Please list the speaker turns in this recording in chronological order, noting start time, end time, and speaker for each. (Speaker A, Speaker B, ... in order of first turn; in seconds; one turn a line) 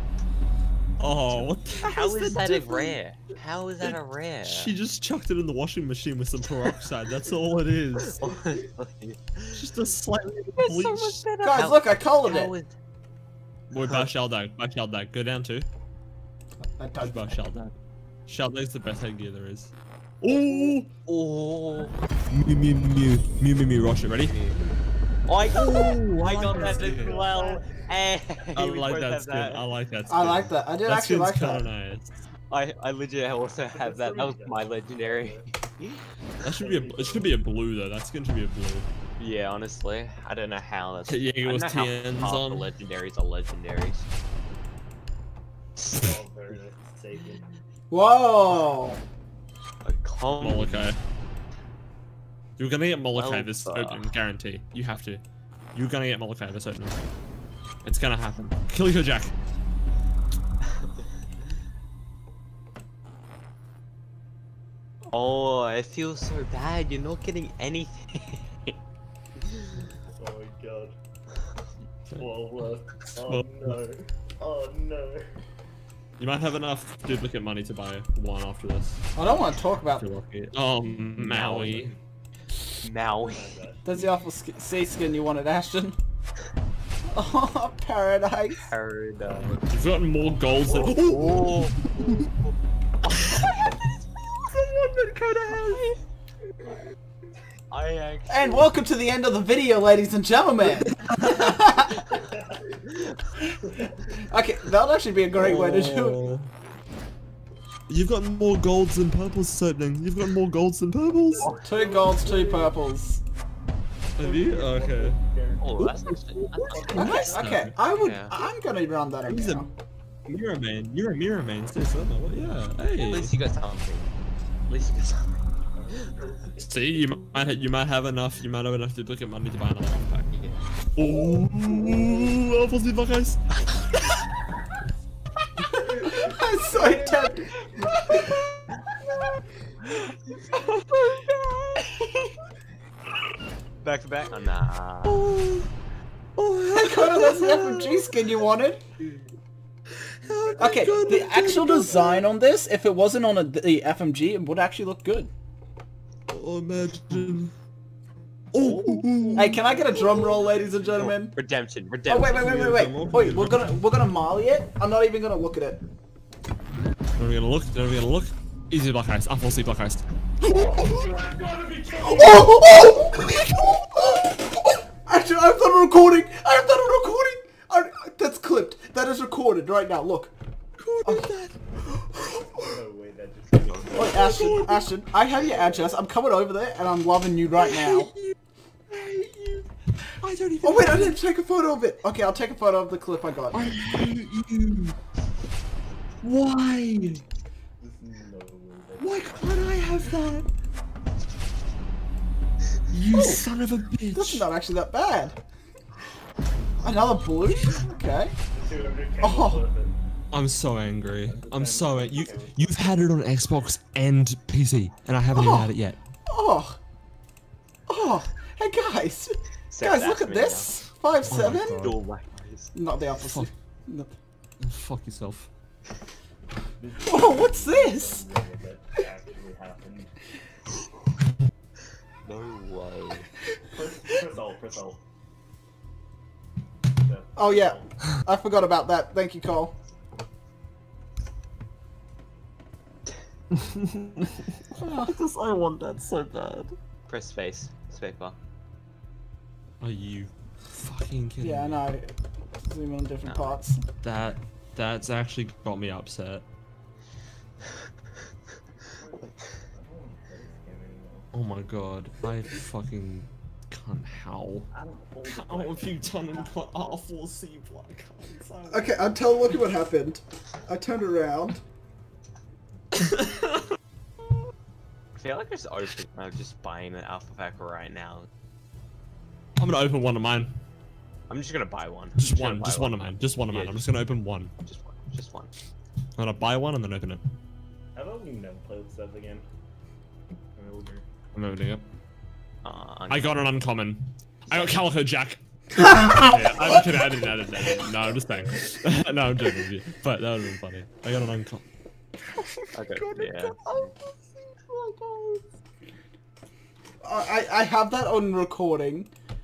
Speaker A: 1.0-3.0
Speaker B: 1.3-4.8
Speaker A: 3.8-8.3
Speaker B: 8.1-9.6
Speaker A: 9.6-11.2
Speaker B: 10.6-12.7
Speaker C: 11.4-12.5
Speaker A: 13.7-15.7
Speaker C: 16.6-17.4
Speaker A: 17.0-17.7
Speaker A: 18.3-20.9
Speaker B: 21.1-22.0
Speaker A: 22.3-24.4
Speaker B: 24.2-24.6
Speaker B: 25.3-29.6
Speaker D: 25.4-27.9
Speaker A: 25.5-27.2
Speaker A: 28.6-32.2
Speaker C: 30.1-31.7
Speaker B: 32.5-36.0
Speaker D: 33.7-35.5
Speaker A: 36.4-38.9
Speaker D: 36.4-37.5
Speaker B: 39.2-44.1
Speaker A: 41.1-42.7
Speaker D: 45.8-47.5
Speaker C: 47.9-49.0
Speaker B: 49.8-50.9
Speaker A: 50.4-51.0
Speaker A: 52.6-55.2
Speaker B: 53.1-54.1
Speaker A: 55.7-57.0
Speaker A: 57.8-59.3
Speaker B: 65.1-68.7
Speaker D: 70.2-71.0
Speaker D: 72.2-75.3
Speaker A: 73.0-73.5
Speaker A: 76.2-82.0
Speaker C: 79.2-80.0
Speaker B: 81.2-81.9
Speaker B: 82.8-83.5
Speaker D: 83.2-84.0
Speaker C: 83.8-86.0
Speaker C: 87.1-88.7
Speaker B: 88.6-89.6
Speaker D: 89.4-91.5
Speaker A: 89.5-92.1
Speaker B: 90.9-92.5
Speaker C: 94.9-95.9
Speaker B: 97.7-98.8
Speaker C: 98.3-102.0
Speaker A: 100.8-101.4
Speaker D: 102.2-102.7
Speaker C: 104.1-106.2
Speaker A: 105.3-106.5
Speaker A: 107.9-111.5
Speaker D: 111.4-112.8
Speaker B: 111.4-111.6
Speaker C: 111.6-113.2
Speaker D: 114.1-116.0
Speaker A: 114.2-115.2
Speaker B: 115.6-117.3
Speaker A: 115.8-117.8
Speaker D: 116.5-117.7
Speaker C: 116.9-119.7
Speaker B: 117.9-118.4
Speaker A: 119.2-119.7
Speaker A: 120.3-123.3
Speaker B: 123.0-124.1
Speaker B: 124.7-125.4
Speaker D: 125.7-127.5
Speaker A: 126.6-130.3
Speaker B: 130.3-130.7
Speaker A: 130.9-133.5
Speaker C: 135.6-138.3
Speaker D: 135.7-137.7
Speaker A: 140.6-141.8
Speaker B: 143.8-145.3
Speaker A: 145.1-145.7
Speaker A: 146.4-148.2
Speaker C: 146.8-148.8
Speaker A: 150.2-152.3
Speaker D: 150.3-152.0
Speaker C: 150.6-155.3
Speaker A: 156.3-157.5
Speaker A: 158.5-159.6
Speaker B: 158.6-159.2
Speaker D: 158.6-161.1
Speaker C: 159.3-161.4
Speaker B: 161.0-162.5
Speaker C: 162.1-165.8
Speaker A: 162.3-163.8
Speaker A: 167.2-171.3
Speaker D: 170.9-172.3
Speaker C: 172.0-174.3
Speaker C: 175.1-180.3
Speaker A: 180.8-181.6
Speaker C: 181.0-182.2
Speaker A: 182.1-182.4
Speaker D: 182.2-184.5
Speaker B: 183.6-184.2
Speaker C: 183.9-188.1
Speaker A: 184.1-184.9
Speaker A: 187.6-188.3
Speaker A: 188.9-189.7
Speaker A: 190.2-191.2
Speaker C: 190.6-193.7
Speaker A: 193.5-195.0
Speaker A: 196.2-197.2
Speaker D: 197.8-199.6
Speaker A: 199.0-200.5
Speaker A: 202.9-204.5
Speaker C: 203.1-203.4
Speaker C: 204.1-205.4
Speaker C: 206.8-208.4
Speaker D: 208.5-209.9
Speaker C: 209.2-209.7
Speaker A: 210.3-216.0
Speaker D: 211.3-212.7
Speaker C: 215.3-215.7
Speaker C: 216.3-216.8
Speaker C: 217.9-221.9
Speaker B: 219.7-222.7
Speaker A: 221.2-222.0
Speaker C: 222.7-224.1
Speaker A: 223.2-223.5
Speaker A: 224.6-225.5
Speaker D: 226.8-230.1
Speaker C: 227.0-228.2
Speaker B: 232.2-233.3
Speaker D: 233.7-235.0
Speaker D: 236.9-237.9
Speaker C: 237.4-239.7
Speaker A: 243.5-246.8
Speaker C: 244.8-245.1
Speaker B: 247.1-248.4
Speaker A: 249.8-251.8
Speaker C: 251.4-252.1
Speaker C: 252.6-253.8
Speaker B: 253.2-253.6
Speaker A: 254.0-256.4
Speaker D: 259.0-261.3
Speaker A: 261.3-264.7
Speaker D: 264.7-266.6
Speaker A: 265.2-269.0
Speaker C: 268.7-271.6
Speaker A: 273.0-273.5
Speaker B: 275.2-278.3
Speaker A: 279.6-280.6
Speaker B: 281.3-283.9
Speaker A: 282.2-284.5
Speaker B: 284.6-285.5
Speaker A: 286.2-287.2
Speaker D: 287.9-289.5
Speaker D: 290.6-291.1
Speaker A: 291.3-291.8
Speaker B: 292.6-293.4
Speaker A: 293.1-301.6
Speaker C: 295.9-296.3
Speaker D: 297.6-298.7
Speaker C: 302.3-305.4
Speaker B: 302.7-303.9
Speaker C: 307.0-309.1